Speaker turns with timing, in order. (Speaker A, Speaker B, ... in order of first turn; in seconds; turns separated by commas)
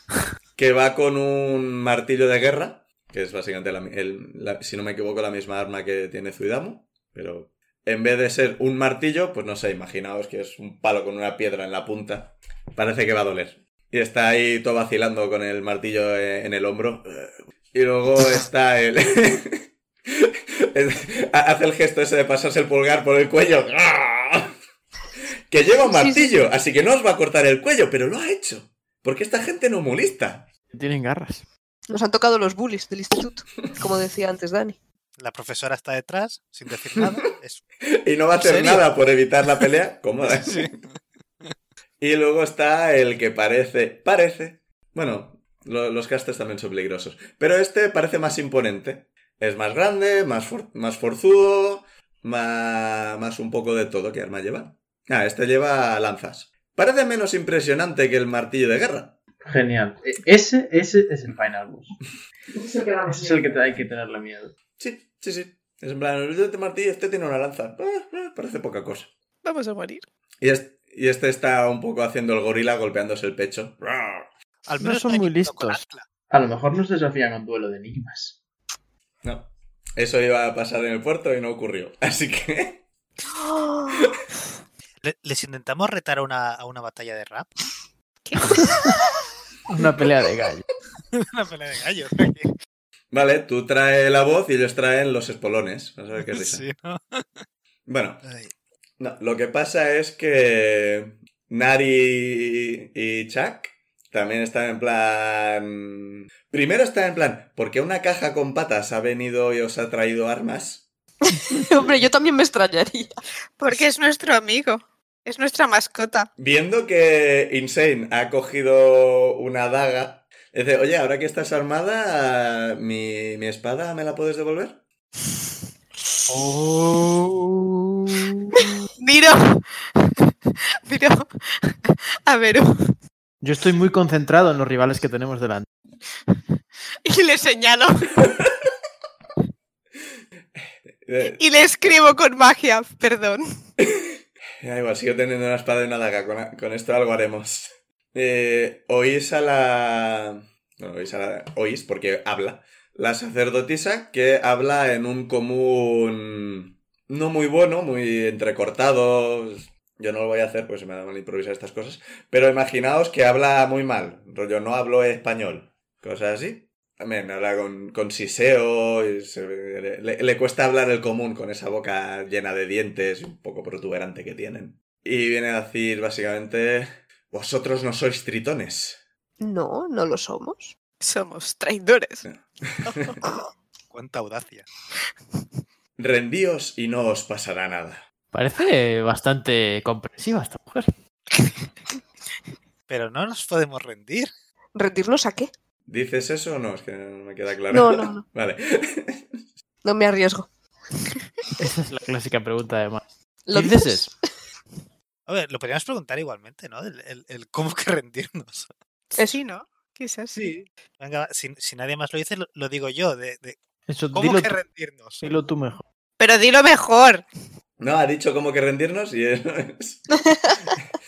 Speaker A: 0.6-24.5, Speaker A: 25.5-30.5, Speaker B: 25.7-26.3, Speaker C: 30.7-31.5, Speaker B: 31.9-34.8, Speaker D: 35.2-37.6, Speaker A: 38.0-40.8, Speaker D: 38.4-38.9, Speaker D: 40.3-40.7, Speaker A: 42.0-59.1, Speaker E: 59.5-62.0, Speaker B: 62.8-63.3, Speaker E: 63.0-64.5, Speaker A: 64.8-69.1, Speaker F: 69.4-70.1, Speaker A: 70.4-74.3, Speaker D: 74.7-76.1, Speaker C: 74.8-75.8, Speaker E: 76.3-78.4, Speaker A: 79.2-82.8, Speaker B: 83.3-84.1, Speaker A: 83.9-84.2, Speaker D: 85.0-87.5, Speaker F: 88.2-89.1, Speaker C: 89.7-90.6, Speaker D: 91.1-92.5, Speaker A: 93.1-96.7, Speaker D: 96.2-97.5, Speaker A: 97.9-98.2, Speaker D: 98.2-98.5, Speaker A: 99.0-110.9, Speaker B: 111.3-113.2, Speaker F: 113.6-116.3, Speaker A: 116.4-124.8, Speaker C: 126.3-128.6, Speaker F: 129.0-130.3, Speaker F: 130.9-133.0, Speaker C: 133.4-135.7, Speaker F: 137.0-138.2, Speaker A: 141.0-141.4, Speaker F: 141.2-143.5, Speaker A: 143.8-179.0, Speaker B: 179.4-180.7, Speaker F: 181.0-182.3, Speaker A: 182.3-183.1, Speaker D: 183.4-184.7, Speaker A: 186.0-188.0, Speaker C: 188.3-190.9, Speaker D: 192.9-194.3, Speaker B: 194.8-195.5, Speaker A: 195.9-199.4, Speaker B: 197.7-198.2, Speaker B: 199.8-200.5, Speaker C: 201.6-204.1, Speaker B: 203.5-204.2, Speaker D: 205.3-208.7, Speaker F: 209.1-210.5, Speaker D: 210.3-213.6, Speaker C: 213.9-214.6, Speaker D: 214.1-215.2, Speaker C: 215.2-215.8, Speaker F: 216.2-217.3, Speaker A: 217.8-220.1, Speaker B: 220.3-220.6